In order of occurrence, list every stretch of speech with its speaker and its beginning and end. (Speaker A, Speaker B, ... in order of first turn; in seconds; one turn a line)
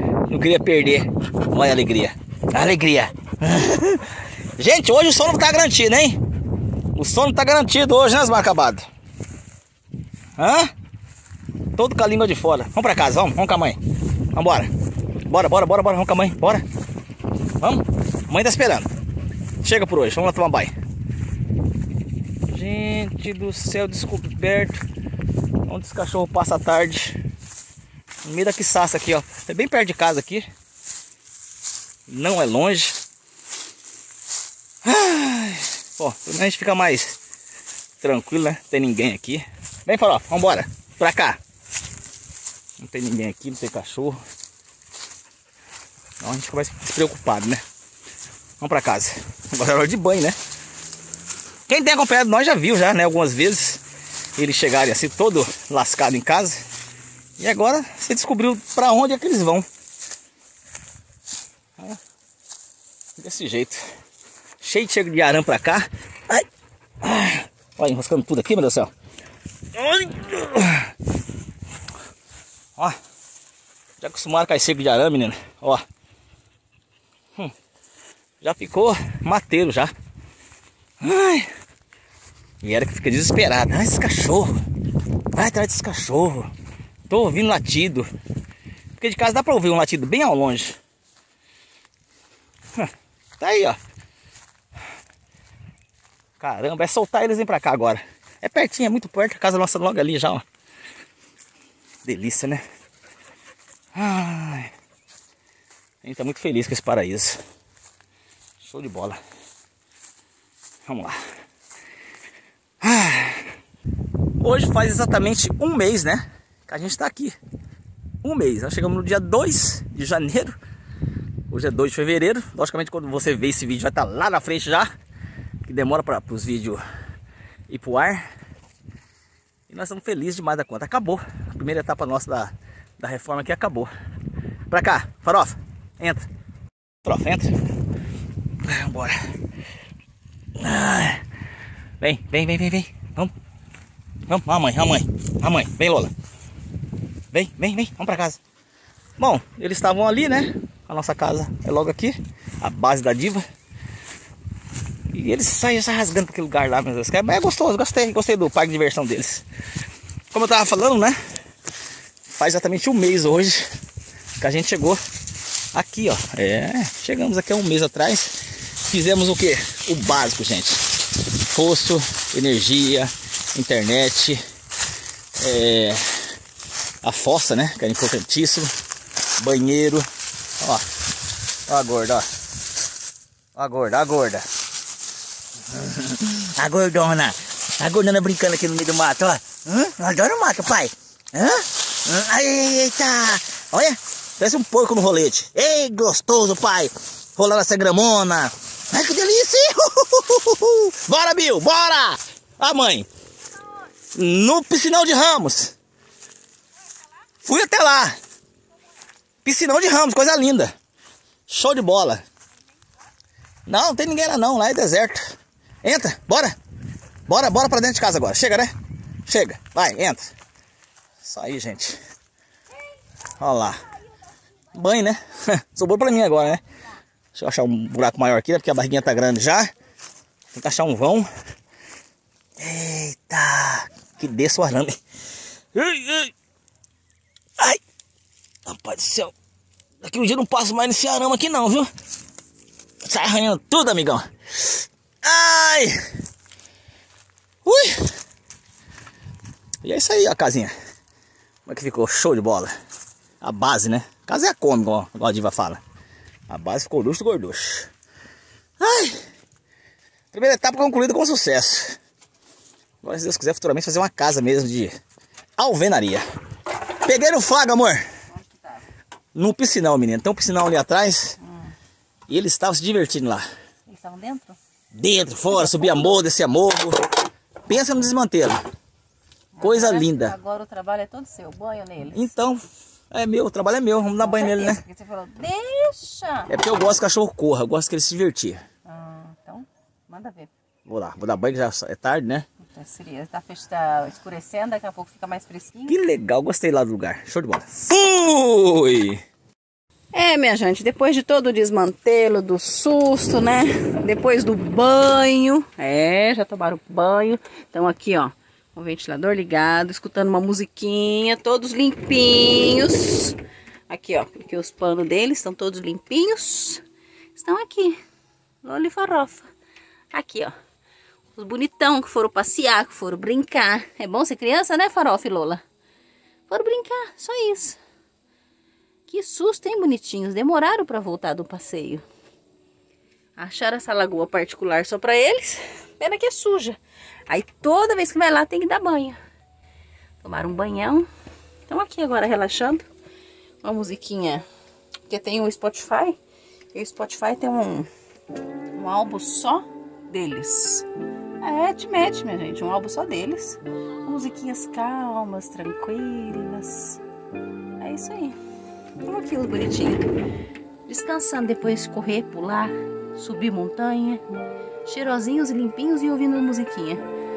Speaker A: 0.3-6.2
Speaker A: 7.0-8.9
Speaker A: 10.4-10.7
Speaker A: 11.8-13.8
Speaker A: 14.3-14.7
Speaker A: 15.3-16.6
Speaker A: 17.6-18.9
Speaker A: 19.6-20.7
Speaker A: 22.5-24.8
Speaker A: 25.6-27.2
Speaker A: 28.2-30.5
Speaker A: 32.1-33.0
Speaker A: 34.8-37.2
Speaker A: 38.0-41.4
Speaker A: 42.8-44.2
Speaker A: 46.2-47.6
Speaker A: 48.6-50.4
Speaker A: 51.7-53.8
Speaker A: 54.4-56.6
Speaker A: 57.4-59.7
Speaker A: 63.2-63.8
Speaker A: 64.6-66.5
Speaker A: 67.0-68.9
Speaker A: 69.7-70.9
Speaker A: 74.0-75.8
Speaker A: 78.4-79.9
Speaker A: 81.0-81.5
Speaker A: 82.6-84.5
Speaker A: 85.3-86.5
Speaker A: 87.1-88.1
Speaker A: 89.0-90.8
Speaker A: 92.8-93.8
Speaker A: 96.4-100.5
Speaker A: 102.0-102.6
Speaker A: 103.9-104.7
Speaker A: 106.0-107.4
Speaker A: 108.6-109.2
Speaker A: 110.9-111.2
Speaker A: 112.8-113.5
Speaker A: 114.4-117.4
Speaker A: 118.2-120.6
Speaker A: 121.5-124.9
Speaker A: 125.7-126.8
Speaker A: 127.7-128.3
Speaker A: 129.7-133.9
Speaker A: 134.7-136.3
Speaker A: 137.0-137.6
Speaker A: 138.6-139.3
Speaker A: 140.6-141.2
Speaker A: 142.0-143.3
Speaker A: 144.3-146.1
Speaker A: 147.3-148.4
Speaker A: 149.2-153.4
Speaker A: 155.1-159.4
Speaker A: 160.3-161.2
Speaker A: 162.3-163.7
Speaker A: 164.4-165.0
Speaker A: 165.7-174.4
Speaker A: 175.4-176.3
Speaker A: 177.0-178.7
Speaker A: 179.4-180.1
Speaker A: 180.6-180.9
Speaker A: 181.7-182.3
Speaker A: 183.6-184.5
Speaker A: 185.7-203.1
Speaker A: 204.2-205.8
Speaker A: 207.4-208.2
Speaker A: 209.4-210.7
Speaker A: 211.5-212.2
Speaker A: 213.7-215.2
Speaker A: 215.8-216.5
Speaker A: 217.3-218.7
Speaker A: 219.2-220.3
Speaker A: 221.2-222.0
Speaker A: 223.4-223.8
Speaker A: 224.8-226.6
Speaker A: 227.3-229.7
Speaker A: 230.5-231.3
Speaker A: 232.6-235.0
Speaker A: 235.7-236.3
Speaker A: 238.7-239.3
Speaker A: 240.0-241.9
Speaker A: 243.0-246.0
Speaker A: 247.7-248.1
Speaker A: 249.8-250.7
Speaker A: 251.7-252.7
Speaker A: 253.4-255.8
Speaker A: 256.5-257.9
Speaker A: 258.8-259.2
Speaker A: 260.3-262.0
Speaker A: 263.0-264.9
Speaker A: 265.6-266.2
Speaker A: 267.0-268.1
Speaker B: 268.3-268.9
Speaker A: 269.4-271.4
Speaker A: 272.3-273.5
Speaker B: 273.9-274.6
Speaker A: 274.9-277.1
Speaker A: 277.7-278.6
Speaker B: 279.6-282.2
Speaker A: 279.6-280.4
Speaker A: 282.1-284.8
Speaker B: 284.2-286.5
Speaker A: 286.5-288.6
Speaker B: 288.9-290.5
Speaker A: 290.9-292.5
Speaker B: 292.6-296.0
Speaker A: 295.9-299.2
Speaker B: 300.1-313.4
Speaker B: 313.9-316.8
Speaker B: 317.4-318.0
Speaker B: 318.6-319.5
Speaker B: 320.1-320.6
Speaker B: 321.4-325.6
Speaker B: 326.5-327.8
Speaker B: 329.1-332.0
Speaker B: 333.4-339.2
Speaker B: 340.2-341.1
Speaker B: 341.7-342.9
Speaker B: 343.6-344.5
Speaker B: 345.1-346.2
Speaker B: 346.7-347.9
Speaker B: 348.7-350.9
Speaker B: 351.4-357.0
Speaker B: 357.8-358.4
Speaker B: 359.0-360.1
Speaker B: 360.9-364.2
Speaker B: 364.9-367.0